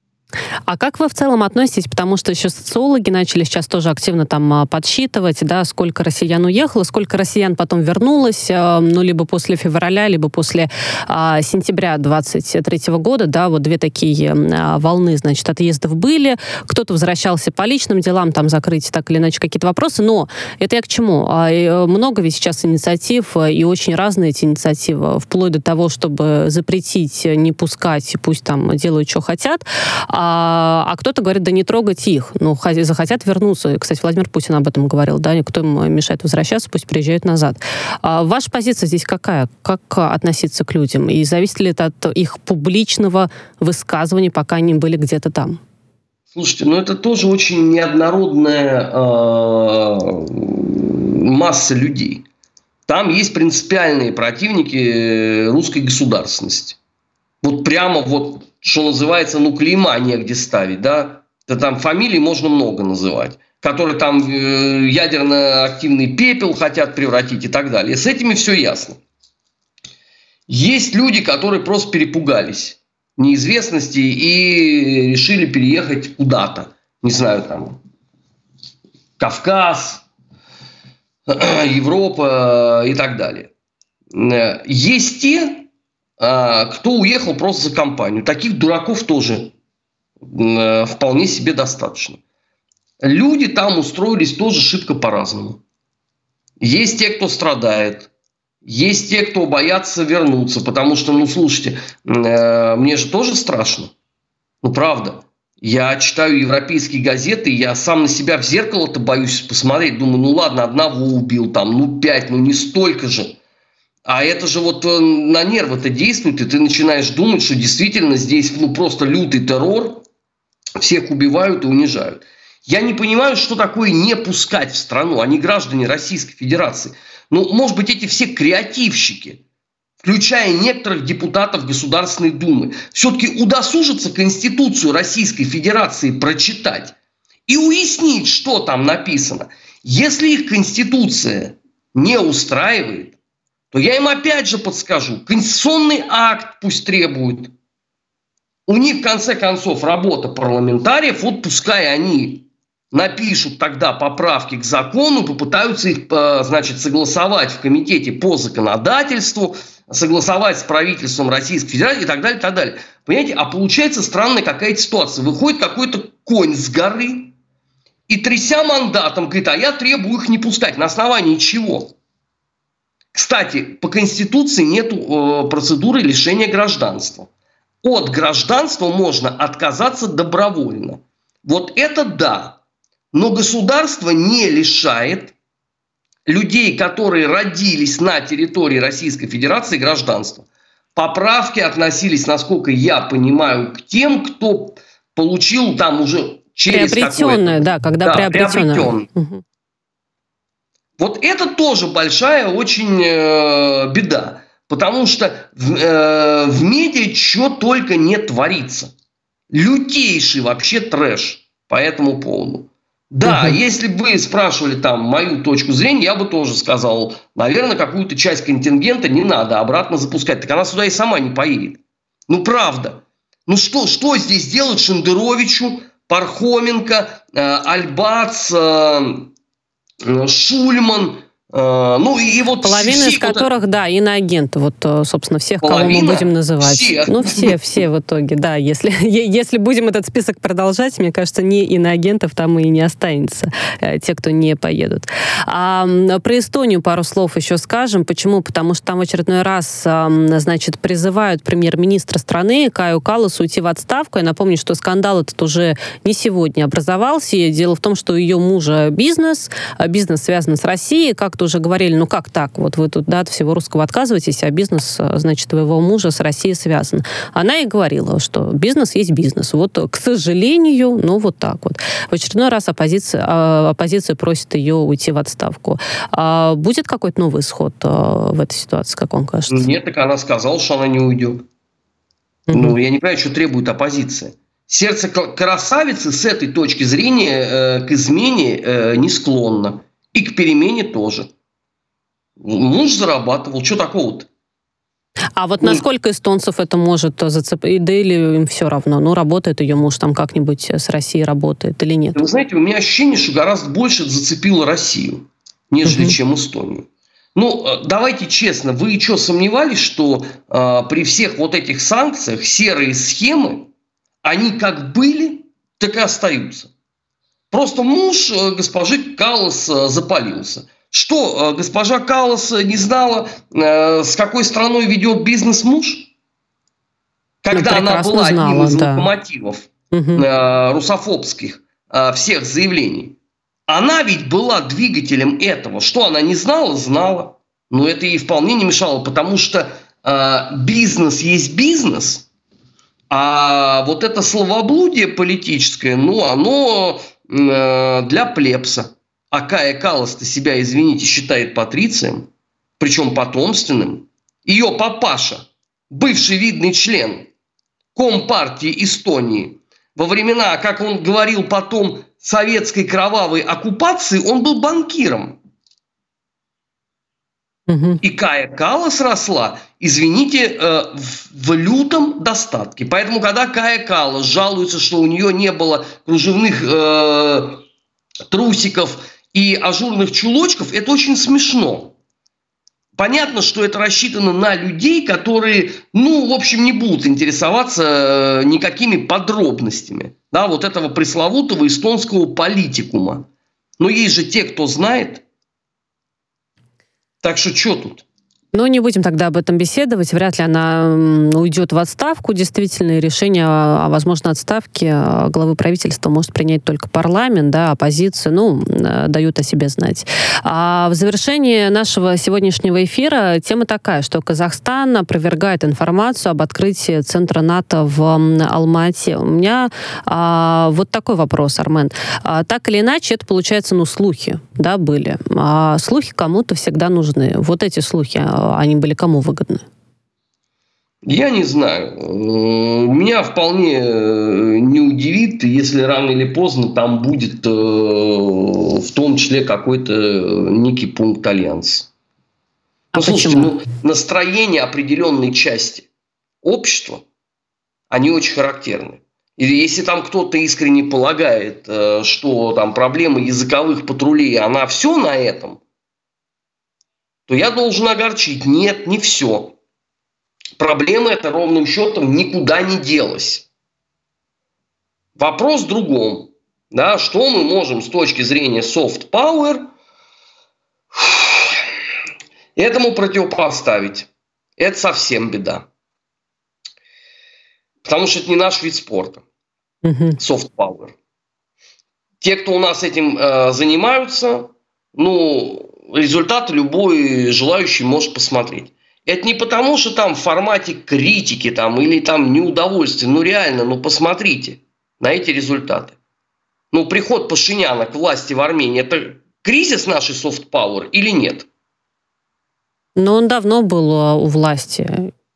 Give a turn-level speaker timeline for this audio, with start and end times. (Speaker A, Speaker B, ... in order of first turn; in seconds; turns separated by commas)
Speaker A: 0.7-45.6, Speaker B: 46.3-52.2, Speaker B: 52.9-56.8, Speaker B: 57.4-69.0, Speaker B: 70.5-77.8, Speaker B: 79.2-80.0, Speaker B: 81.3-83.5, Speaker B: 84.1-85.7, Speaker B: 86.2-89.5, Speaker B: 90.2-92.2, Speaker B: 93.0-95.6, Speaker B: 96.6-98.1, Speaker B: 98.6-103.9, Speaker B: 104.6-113.4, Speaker B: 114.0-120.0, Speaker B: 120.8-129.4, Speaker B: 130.0-136.9, Speaker B: 137.5-143.2, Speaker B: 143.7-147.5, Speaker B: 148.7-167.3, Speaker B: 168.1-171.9, Speaker B: 173.1-177.3, Speaker B: 177.8-182.6, Speaker B: 183.1-185.3, Speaker B: 186.3-199.1, Speaker A: 196.7-199.4, Speaker B: 201.0-208.9, Speaker B: 209.5-229.3, Speaker A: 213.2-213.6, Speaker B: 230.0-233.5, Speaker A: 232.6-279.7, Speaker B: 235.6-237.8, Speaker B: 279.5-281.4, Speaker A: 282.5-282.8, Speaker B: 282.5-291.3, Speaker B: 292.4-294.3, Speaker A: 295.4-302.2, Speaker B: 302.1-313.7, Speaker A: 305.9-306.1, Speaker B: 314.2-316.7, Speaker B: 317.5-326.1, Speaker B: 327.4-333.1, Speaker A: 327.5-329.1, Speaker A: 329.9-330.2, Speaker B: 333.7-342.3, Speaker B: 343.1-352.3, Speaker B: 352.8-357.3, Speaker B: 357.9-365.4, Speaker A: 367.7-368.0, Speaker B: 368.0-377.6, Speaker B: 378.3-381.9, Speaker B: 383.0-393.2, Speaker B: 393.8-395.2, Speaker B: 397.2-398.0, Speaker A: 398.5-429.6, Speaker B: 431.0-441.9, Speaker A: 442.9-443.5, Speaker B: 443.0-445.9, Speaker B: 446.4-447.0, Speaker B: 447.9-455.6, Speaker B: 457.3-459.6, Speaker B: 460.6-463.5, Speaker B: 465.2-469.7, Speaker B: 470.9-471.6, Speaker B: 472.6-475.7, Speaker B: 477.8-479.2, Speaker A: 479.8-480.2, Speaker B: 480.2-480.9, Speaker B: 482.2-495.9, Speaker B: 496.7-501.5, Speaker A: 503.0-505.1